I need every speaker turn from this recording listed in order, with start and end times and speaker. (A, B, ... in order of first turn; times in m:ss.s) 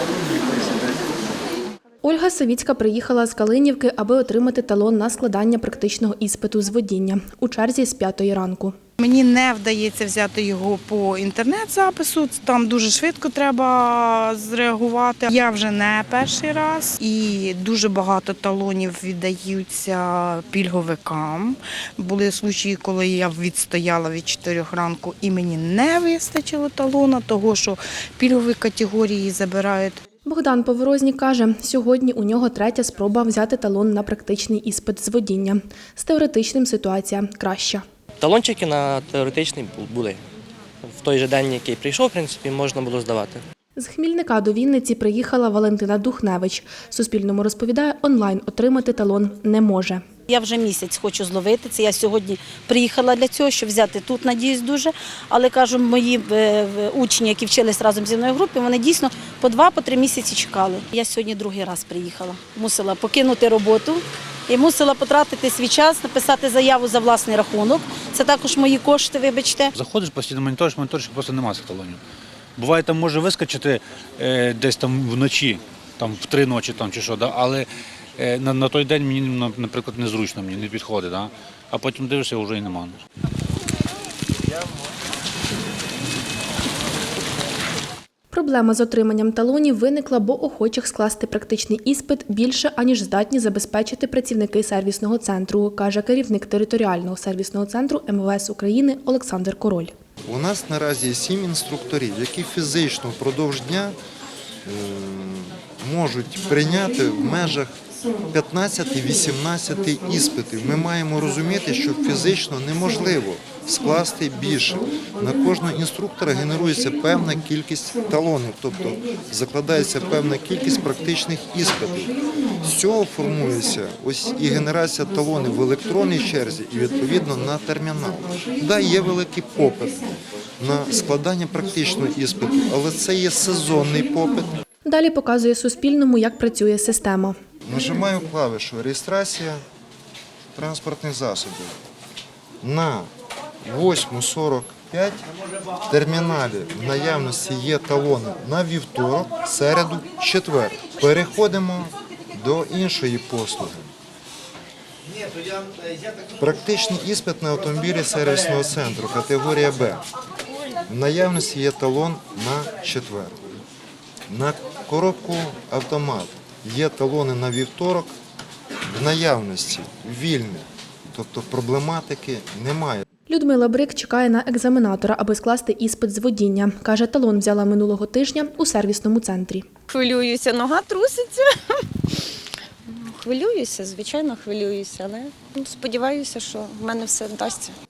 0:02.0-0:08.8 A
0:09.0-0:30.0 B
0:30.2-0:37.8 A
0:38.2-0:40.2 C
0:40.8-0:43.4 C
0:43.8-0:50.0 A
0:50.3-1:09.7 D
1:09.7-1:12.0 E
1:12.6-1:23.0 E
1:28.3-1:39.9 A
1:40.3-1:44.0 F
1:44.6-1:47.8 F
1:48.3-2:14.6 F
2:14.9-2:17.4 A
2:17.6-2:19.6 F
2:20.5-2:21.8 F
2:22.6-2:23.1 F
2:23.6-2:25.2 F
2:25.9-2:33.9 F
2:36.4-2:40.0 F
2:40.9-2:43.4 F
2:44.3-2:48.1 F
2:48.9-2:53.0 F
2:53.3-2:59.6 A
2:59.9-3:01.4 G
3:02.9-3:07.7 G